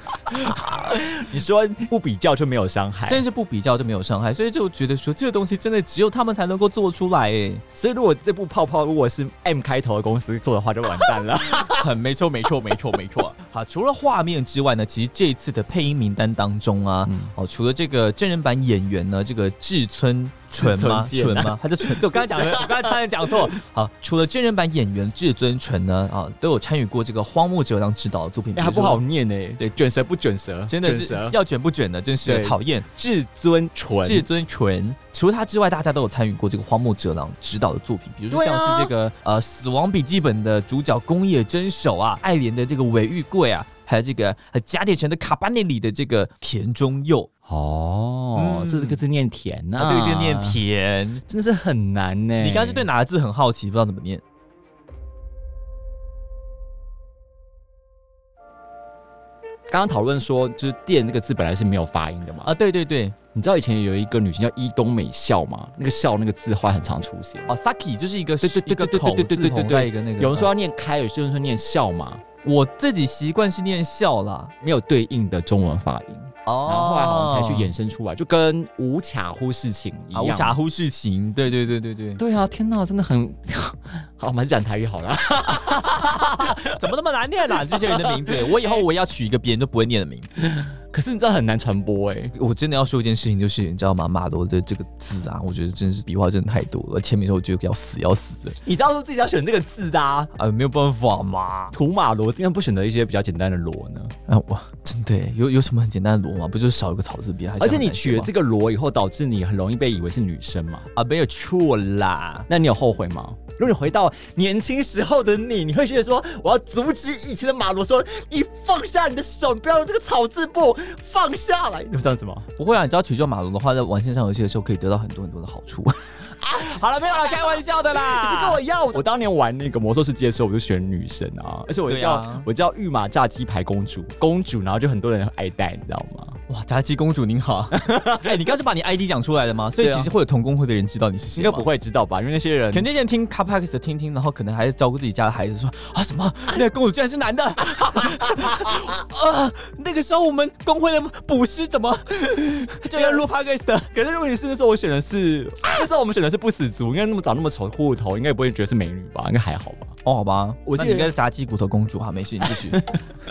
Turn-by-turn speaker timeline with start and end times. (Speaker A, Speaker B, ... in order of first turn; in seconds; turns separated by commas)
Speaker A: 0.3-3.2, Speaker B: 0.3-0.8, Speaker B: 3.1-7.6, Speaker A: 7.7-11.9, Speaker B: 11.5-29.0, Speaker A: 17.1-17.3, Speaker A: 20.6-23.4, Speaker A: 28.5-31.4, Speaker B: 30.7-32.9, Speaker A: 32.2-34.3, Speaker B: 34.0-47.3, Speaker A: 38.3-38.9, Speaker A: 47.5-50.6, Speaker B: 48.4-49.0, Speaker B: 49.8-51.2, Speaker A: 51.3-52.9, Speaker B: 52.4-54.2, Speaker A: 59.7-62.5, Speaker B: 62.4-63.1, Speaker A: 63.3-67.5, Speaker B: 67.5-70.5, Speaker A: 68.4-72.2, Speaker B: 72.4-74.5, Speaker A: 74.6-80.6, Speaker B: 76.5-77.7, Speaker B: 80.1-82.2, Speaker A: 82.2-86.7, Speaker B: 85.5-90.5, Speaker A: 87.6-88.8, Speaker A: 90.4-92.3, Speaker B: 92.3-98.6, Speaker A: 98.6-100.3, Speaker B: 100.3-101.7, Speaker A: 101.7-104.1, Speaker B: 104.3-108.3, Speaker A: 107.6-110.9, Speaker B: 110.9-112.5, Speaker A: 112.5-122.5, Speaker B: 122.6-128.6, Speaker A: 126.4-136.4, Speaker B: 131.9-132.5, Speaker B: 136.5-141.7, Speaker A: 137.7-138.5, Speaker A: 139.8-140.1, Speaker A: 141.3-142.9, Speaker B: 142.7-153.9, Speaker A: 147.8-148.9, Speaker A: 152.9-153.2, Speaker A: 153.9-160.0, Speaker B: 160.0-162.8, Speaker A: 160.7-161.1, Speaker A: 162.4-163.0